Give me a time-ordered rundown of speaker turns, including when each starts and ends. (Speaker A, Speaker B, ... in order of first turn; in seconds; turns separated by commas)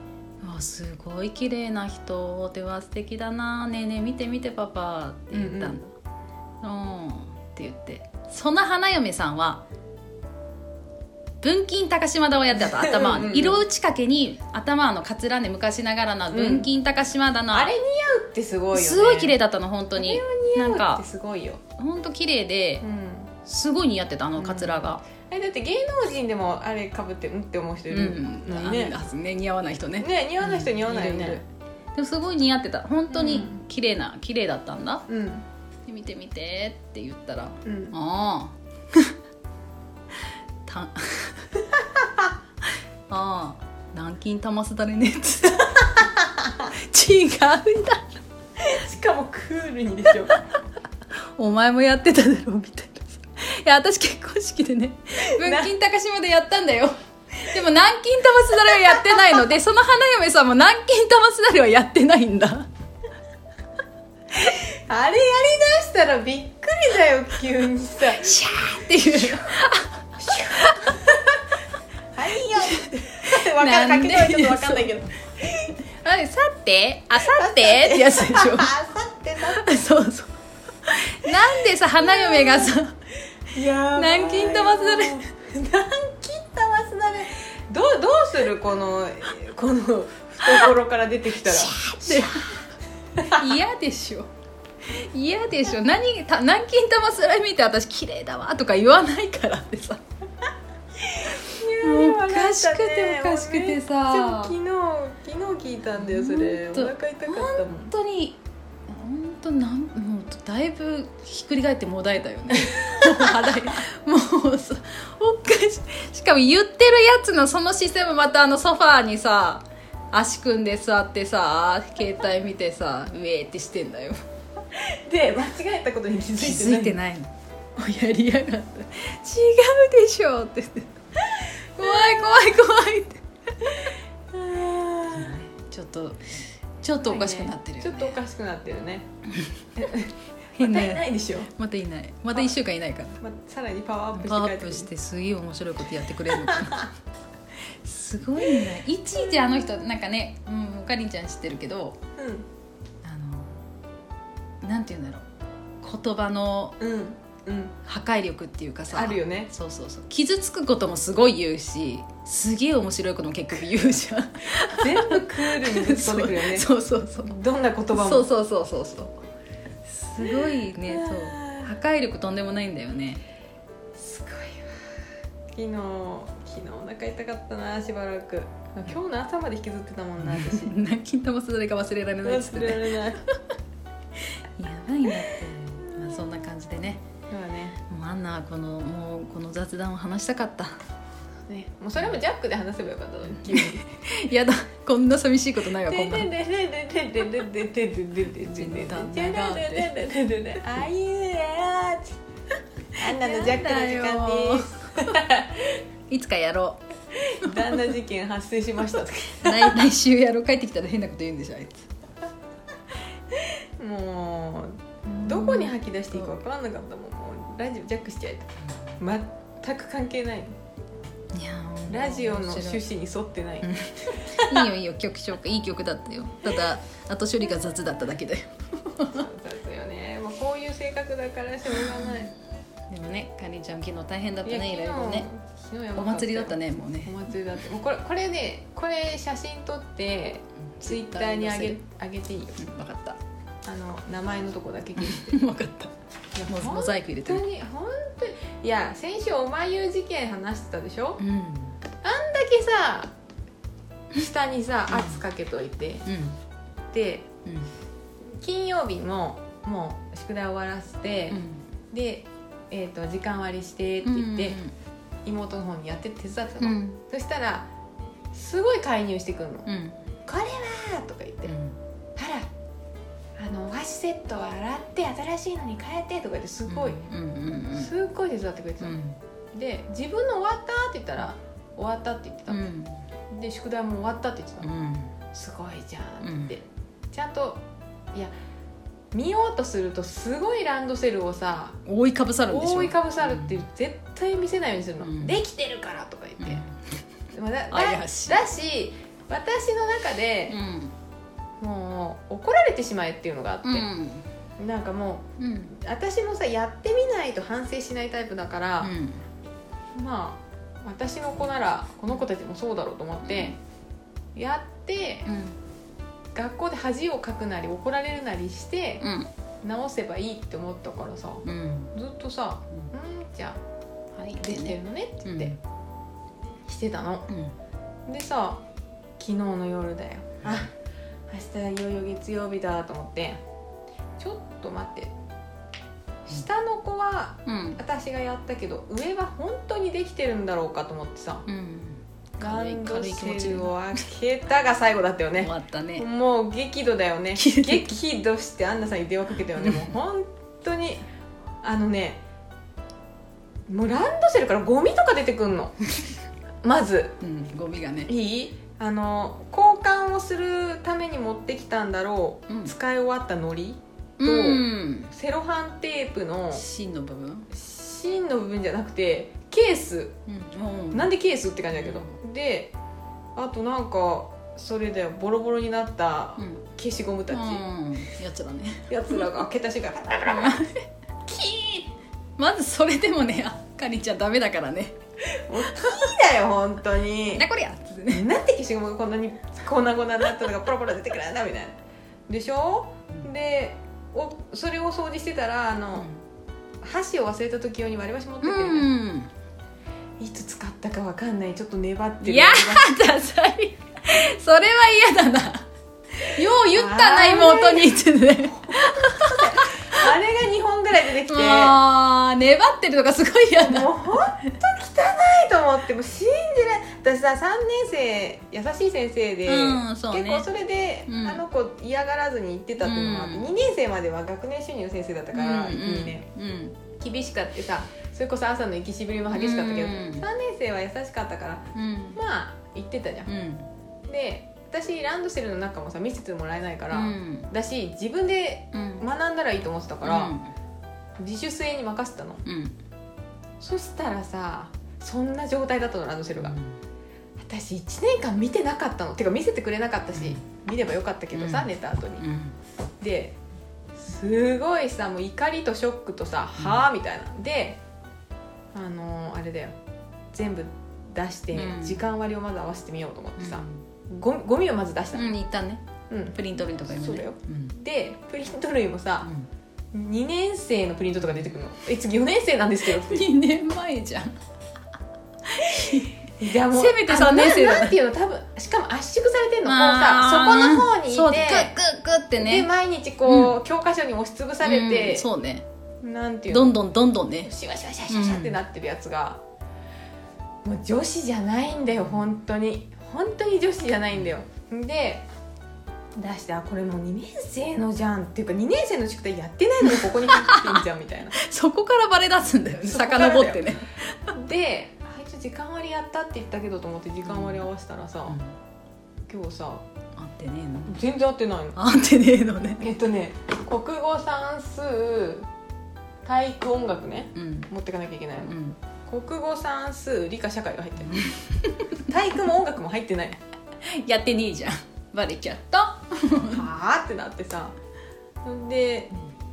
Speaker A: 0.4-5.9, Speaker B: 5.3-5.8, Speaker A: 6.6-9.6, Speaker A: 11.4-17.7, Speaker B: 12.5-13.6, Speaker B: 16.3-16.7, Speaker B: 17.5-19.4, Speaker A: 18.7-21.0, Speaker B: 20.0-21.6, Speaker A: 21.8-22.9, Speaker B: 22.8-23.3, Speaker A: 23.4-25.0, Speaker B: 24.4-29.0, Speaker A: 27.9-31.4, Speaker B: 30.0-31.4, Speaker A: 31.9-35.0, Speaker B: 33.1-33.6, Speaker B: 35.1-35.5, Speaker A: 35.9-39.1, Speaker B: 37.6-38.0, Speaker A: 40.6-41.5, Speaker A: 43.1-46.1, Speaker A: 46.7-48.1, Speaker B: 48.6-50.4, Speaker A: 51.4-62.7, Speaker B: 55.3-55.7, Speaker B: 64.4-68.4, Speaker A: 68.2-69.9, Speaker B: 69.2-69.5, Speaker B: 70.2-71.4, Speaker B: 72.1-75.8, Speaker A: 72.5-74.9, Speaker A: 76.0-78.8, Speaker B: 77.2-79.7, Speaker A: 79.5-83.0, Speaker B: 82.0-82.8, Speaker B: 83.5-92.6, Speaker A: 84.0-85.2, Speaker A: 90.4-90.7, Speaker A: 91.4-92.6, Speaker A: 93.2-94.3, Speaker A: 94.8-100.0, Speaker B: 101.0-107.9, Speaker A: 101.8-104.6, Speaker A: 106.0-124.2, Speaker B: 112.8-113.1, Speaker B: 124.7-127.0, Speaker A: 126.4-130.9, Speaker A: 131.8-133.7, Speaker B: 131.8-132.3, Speaker B: 133.7-135.4, Speaker A: 135.1-138.2, Speaker B: 137.0-139.1, Speaker B: 139.8-141.5, Speaker A: 140.6-143.2, Speaker B: 143.2-144.9, Speaker A: 144.2-146.9, Speaker B: 146.5-146.8, Speaker A: 147.8-152.0, Speaker B: 152.2-152.5, Speaker A: 153.0-153.6, Speaker A: 154.6-155.2, Speaker A: 155.8-156.8, Speaker B: 156.8-157.8, Speaker A: 157.8-167.3, Speaker B: 158.9-159.5, Speaker B: 164.7-166.7, Speaker B: 167.3-168.3, Speaker A: 167.9-169.2, Speaker A: 169.9-173.2, Speaker B: 170.2-171.7, Speaker B: 174.0-174.8, Speaker B: 175.5-180.8, Speaker A: 180.2-183.0, Speaker B: 182.2-183.2, Speaker A: 184.4-187.0, Speaker B: 187.3-187.8, Speaker A: 187.9-190.8, Speaker B: 191.5-193.8, Speaker A: 193.4-196.3, Speaker B: 195.9-202.2, Speaker A: 198.4-199.9, Speaker B: 202.9-205.8, Speaker A: 203.1-205.2, Speaker A: 206.1-206.8, Speaker B: 207.2-209.9, Speaker A: 207.5-207.7, Speaker A: 209.4-211.9, Speaker B: 213.8-220.6, Speaker A: 215.2-216.3, Speaker A: 221.3-222.8, Speaker B: 221.9-223.8, Speaker A: 223.6-229.2, Speaker B: 224.3-224.6, Speaker B: 229.1-232.3, Speaker A: 232.9-235.3, Speaker B: 234.4-242.6, Speaker A: 235.9-237.2, Speaker A: 240.8-241.8, Speaker A: 242.6-243.2, Speaker B: 243.7-245.4, Speaker A: 245.0-245.9, Speaker B: 246.3-251.2, Speaker A: 246.5-247.4, Speaker A: 251.2-251.8, Speaker B: 252.0-253.1, Speaker B: 254.1-256.1, Speaker A: 254.9-255.2, Speaker A: 256.1-256.4, Speaker B: 256.9-257.3, Speaker A: 257.4-257.7, Speaker B: 258.4-264.6, Speaker A: 261.3-261.6, Speaker A: 264.0-264.8, Speaker B: 265.2-267.7, Speaker A: 266.6-267.0, Speaker B: 268.3-269.7, Speaker A: 269.7-270.0, Speaker B: 270.3-271.6, Speaker A: 271.5-271.8, Speaker B: 272.2-272.5, Speaker B: 273.4-277.1, Speaker A: 276.7-277.9, Speaker B: 277.7-279.0, Speaker A: 278.8-279.2, Speaker B: 279.5-282.6, Speaker A: 282.5-283.0, Speaker B: 283.3-284.7, Speaker A: 284.6-285.1, Speaker B: 285.3-287.6, Speaker A: 286.2-286.6, Speaker B: 289.1-291.8, Speaker A: 291.9-293.6, Speaker B: 292.5-296.6, Speaker A: 295.0-295.4, Speaker A: 296.4-296.9, Speaker B: 297.3-300.6, Speaker A: 297.7-298.4, Speaker A: 300.5-300.9, Speaker B: 301.6-303.9, Speaker A: 303.6-304.2, Speaker B: 304.6-308.9, Speaker A: 305.4-305.7, Speaker A: 308.8-309.2, Speaker B: 309.9-313.6, Speaker A: 313.2-313.6, Speaker B: 314.4-315.3, Speaker A: 315.3-315.6, Speaker B: 316.4-319.1, Speaker A: 319.0-319.3, Speaker B: 319.6-323.6, Speaker A: 321.4-321.9, Speaker A: 324.1-325.6, Speaker B: 324.4-325.6, Speaker B: 326.7-327.3, Speaker A: 327.3-327.5, Speaker B: 328.1-328.6, Speaker B: 329.2-330.7, Speaker B: 331.3-333.4, Speaker B: 334.2-335.1, Speaker B: 336.3-341.5, Speaker A: 337.5-337.8, Speaker A: 341.5-343.7, Speaker B: 342.4-351.1, Speaker A: 345.4-346.1, Speaker A: 347.4-347.9, Speaker A: 349.6-349.9, Speaker B: 351.6-352.2, Speaker B: 353.7-355.8, Speaker B: 356.6-357.2, Speaker A: 357.2-358.1, Speaker B: 358.1-366.6, Speaker A: 364.2-365.1, Speaker A: 366.5-367.5, Speaker B: 367.5-370.2, Speaker A: 370.3-371.1, Speaker B: 370.9-372.7, Speaker A: 371.8-372.1, Speaker B: 373.4-377.6, Speaker A: 377.3-379.2, Speaker B: 378.9-380.7, Speaker A: 380.3-380.8, Speaker B: 381.3-381.9, Speaker A: 382.4-385.0, Speaker B: 385.4-387.5, Speaker A: 387.3-388.3, Speaker B: 388.1-396.1, Speaker B: 396.8-398.9, Speaker A: 398.4-399.3, Speaker B: 400.2-402.9, Speaker A: 402.2-405.7, Speaker A: 406.2-410.0, Speaker B: 406.7-408.0, Speaker B: 408.5-411.8, Speaker A: 411.3-413.9, Speaker B: 413.6-426.2, Speaker A: 419.5-420.5, Speaker A: 421.1-421.4, Speaker A: 422.8-423.5, Speaker A: 425.3-426.8, Speaker B: 427.0-433.3, Speaker A: 429.3-430.3, Speaker A: 431.7-432.2, Speaker A: 433.3-433.7, Speaker B: 434.1-440.4, Speaker A: 436.9-437.5, Speaker A: 438.7-439.0, Speaker A: 440.0-440.5, Speaker B: 441.2-442.4, Speaker A: 442.4-442.8, Speaker B: 443.6-446.6, Speaker A: 446.4-446.8, Speaker B: 447.4-452.3, Speaker A: 450.2-450.4, Speaker A: 451.3-452.6, Speaker B: 453.0-453.4, Speaker B: 454.0-457.8, Speaker A: 456.6-456.8, Speaker B: 458.7-459.8, Speaker B: 460.3-465.3, Speaker A: 461.6-462.1, Speaker A: 463.4-463.8, Speaker A: 465.1-465.8, Speaker B: 466.1-469.3, Speaker A: 466.4-467.7, Speaker A: 469.2-469.5, Speaker B: 469.9-473.3, Speaker A: 472.9-474.4, Speaker A: 475.5-478.0, Speaker B: 475.9-481.7, Speaker A: 479.6-482.7, Speaker B: 482.4-485.3, Speaker A: 483.2-483.6, Speaker A: 484.6-485.7, Speaker B: 486.0-486.8, Speaker A: 486.5-487.5, Speaker B: 487.4-489.4, Speaker A: 488.1-488.6, Speaker B: 490.6-495.3, Speaker B: 496.2-501.4, Speaker A: 500.0-500.8, Speaker A: 501.4-504.0, Speaker B: 502.8-503.7, Speaker B: 504.3-508.4, Speaker A: 507.2-507.7, Speaker A: 508.3-508.6, Speaker B: 509.3-509.8, Speaker A: 510.2-511.0, Speaker B: 510.9-511.8, Speaker A: 511.8-512.8, Speaker B: 512.8-515.5, Speaker B: 516.2-521.4, Speaker A: 517.4-517.7, Speaker A: 518.4-518.8, Speaker A: 521.1-521.9, Speaker B: 522.0-523.4, Speaker A: 523.8-526.6, Speaker B: 526.5-527.8, Speaker B: 528.4-529.1